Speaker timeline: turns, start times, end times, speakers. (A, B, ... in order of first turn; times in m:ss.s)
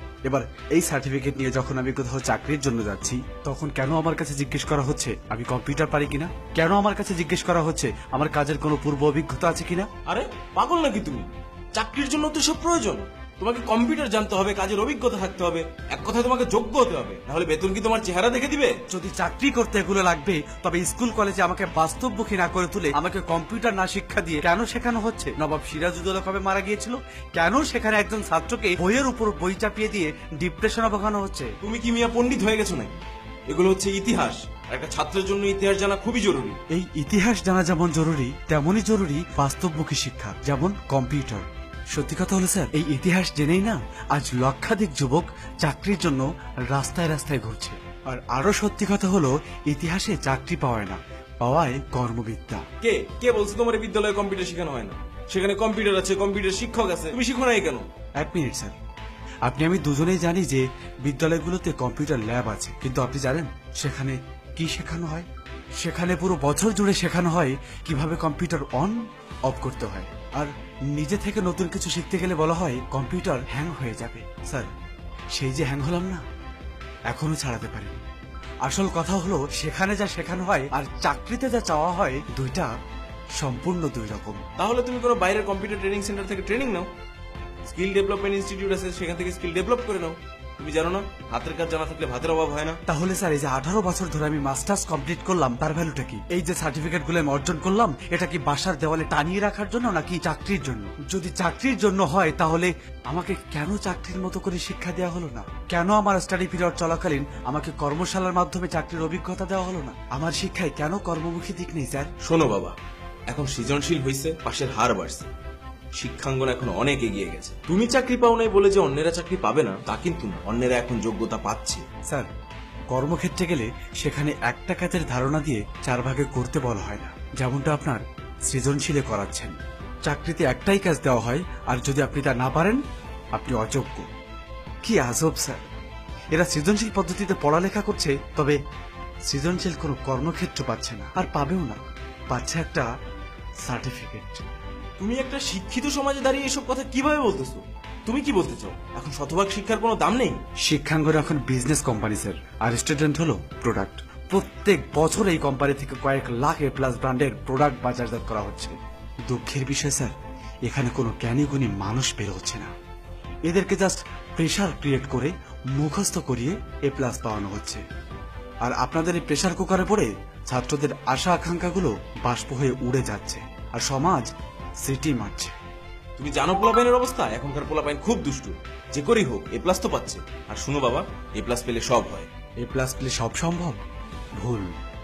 0:00.2-0:09.9 A
0:10.0-0:18.8 B
0:18.9-0:31.5 A
0:31.6-0:36.6 B
0:36.7-0:52.6 A
0:52.8-0:57.8 B
0:58.2-0:58.8 A
0:59.4-1:05.3 A
1:05.8-1:14.7 A
1:15.3-1:16.2 A
1:17.1-1:18.0 A
1:18.6-1:22.7 A
1:23.4-1:24.4 A
1:24.6-1:26.9 B
1:27.7-1:32.8 B
1:32.9-1:52.1 A
1:52.2-1:52.8 B
1:53.3-1:55.3 B
1:56.0-2:01.8 B
2:02.9-2:12.8 A
2:13.3-2:14.1 A
2:14.8-2:15.6 A
2:16.3-2:18.6 A
2:19.3-2:22.9 A
2:23.6-2:24.4 A
2:25.0-2:30.4 B
2:30.6-2:38.8 A
2:39.3-2:40.1 A
2:40.6-2:42.7 A
2:43.4-2:47.8 A
2:48.6-2:54.3 A
2:54.8-2:55.5 A
2:56.2-3:02.3 B
3:02.6-3:03.8 A
3:04.4-3:04.8 A